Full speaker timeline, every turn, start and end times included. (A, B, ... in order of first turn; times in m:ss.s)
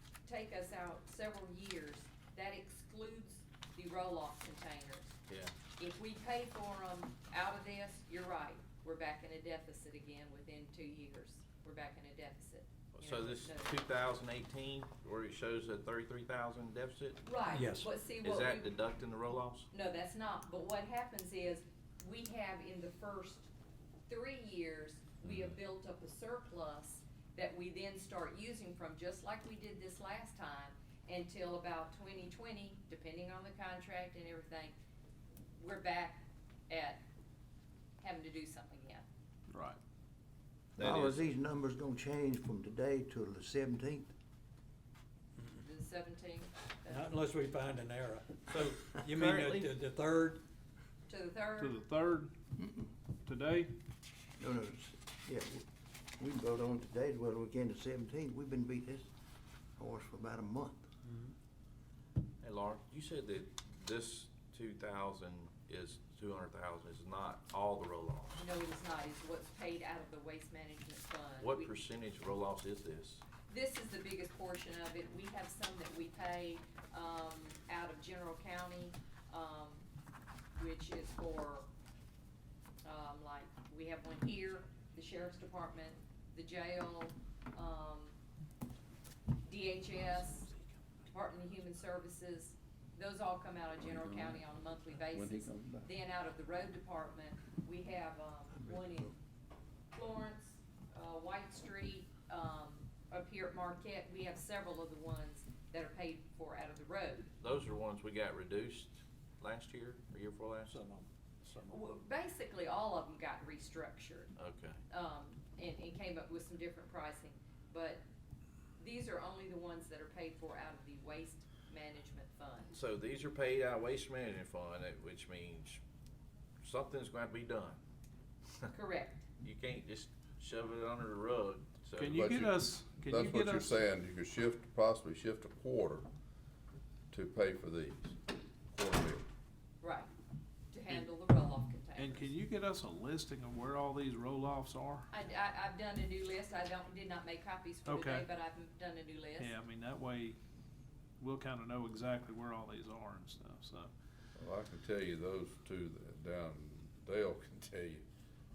0:00.3-0:05.2 A
0:05.3-0:05.5 B
0:05.8-0:13.8 A
0:12.9-0:17.2 B
0:17.2-0:18.7 A
0:17.5-0:17.9 C
0:18.2-0:19.7 B
0:19.7-0:23.5 A
0:24.1-0:34.8 A
0:35.6-0:37.0 A
0:38.0-0:39.0 A
0:39.5-0:39.8 D
0:40.8-0:41.3 B
0:40.8-0:44.1 E
0:45.6-0:47.2 A
0:46.9-0:50.4 C
0:49.0-0:49.7 B
0:51.1-0:51.8 A
0:51.6-0:52.3 D
0:53.3-0:53.7 D
0:54.4-0:55.6 E
0:56.2-0:59.1 E
0:59.8-1:00.9 E
1:01.1-1:01.3 C
1:02.4-1:08.5 B
1:08.4-1:11.7 A
1:11.4-1:13.2 B
1:13.5-1:19.9 A
1:20.6-1:21.7 A
1:22.8-1:28.2 A
1:29.4-1:30.5 A
1:31.1-1:39.1 A
1:35.1-1:35.9 E
1:38.6-1:39.1 E
1:39.9-1:47.3 A
1:47.4-1:50.8 B
1:50.7-1:51.8 C
1:51.7-1:54.3 A
1:54.4-1:54.8 B
1:54.9-1:58.0 A
1:58.8-2:02.8 A
2:02.7-2:05.8 B
2:06.6-2:07.8 B
2:08.7-2:09.3 A
2:09.4-2:12.4 B
2:12.0-2:13.8 D
2:12.1-2:16.1 F
2:17.1-2:18.2 F
2:18.7-2:19.2 F
2:19.8-2:20.1 A
2:20.7-2:22.3 A
2:22.0-2:25.1 D
2:25.1-2:29.6 A
2:27.9-2:28.3 D
2:29.4-2:30.4 D
2:31.2-2:33.9 D
2:34.4-2:38.0 F